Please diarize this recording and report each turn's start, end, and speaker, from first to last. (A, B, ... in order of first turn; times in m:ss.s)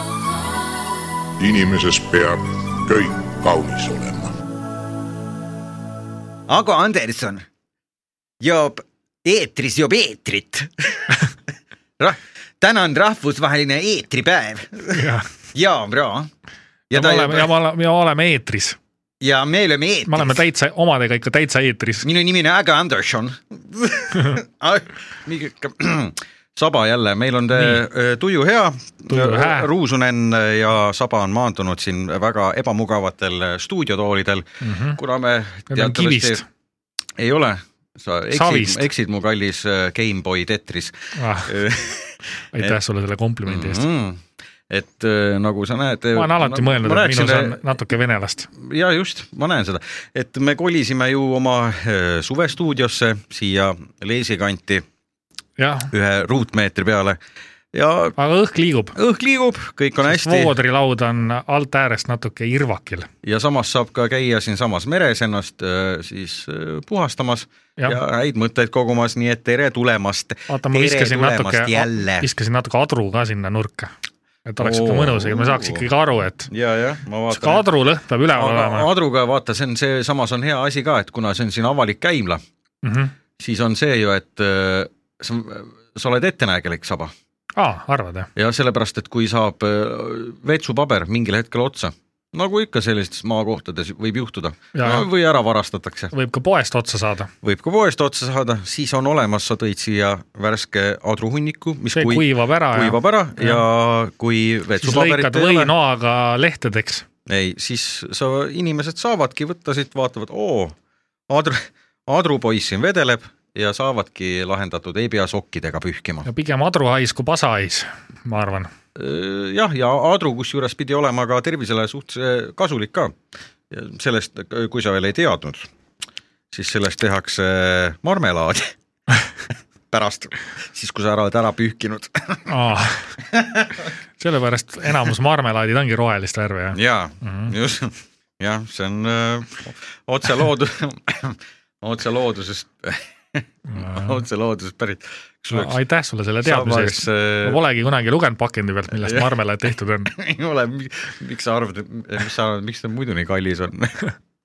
0:01.4-0:04.3 A
0:06.5-0:07.5 B
0:08.4-0:11.2 B
0:12.0-0:16.3 B
0:14.9-0:15.3 C
0:16.9-0:17.5 B
0:16.9-0:18.8 C
0:19.2-0:20.4 B
0:20.0-0:22.1 C
0:22.0-0:36.4 B
0:27.5-0:27.8 C
0:29.1-0:29.7 C
0:34.6-0:35.0 C
0:35.7-0:36.4 C
0:37.2-0:42.8 B
0:38.3-0:38.9 C
0:41.2-0:41.5 C
0:42.5-0:43.8 C
0:43.4-0:47.7 B
0:46.1-0:48.5 C
0:48.6-0:54.8 B
0:55.6-0:55.9 C
0:55.9-0:57.2 B
0:57.7-0:58.2 B
0:58.2-0:59.0 C
0:58.9-1:00.5 B
1:00.0-1:03.1 C
1:03.2-1:12.3 B
1:10.5-1:13.9 C
1:14.4-1:16.5 C
1:14.6-1:15.8 B
1:16.5-1:17.6 B
1:17.3-1:18.9 C
1:18.4-1:22.4 B
1:22.8-1:23.1 C
1:23.4-1:27.1 B
1:27.6-1:28.3 C
1:28.4-1:36.1 B
1:34.7-1:35.1 C
1:36.1-1:37.3 C
1:37.4-1:45.7 B
1:41.9-1:43.6 C
1:44.8-1:47.0 C
1:47.3-1:50.8 B
1:51.3-1:56.2 B
1:56.2-1:58.7 C
1:59.0-2:03.2 B
2:03.7-2:05.7 B
2:06.5-2:08.7 B
2:09.9-2:12.5 B
2:12.5-2:13.1 C
2:13.3-2:13.8 B
2:14.2-2:17.5 C
2:16.8-2:25.8 B
2:23.7-2:24.2 C
2:25.5-2:30.1 C
2:26.4-2:27.6 B
2:29.0-2:29.3 B
2:30.1-2:34.1 B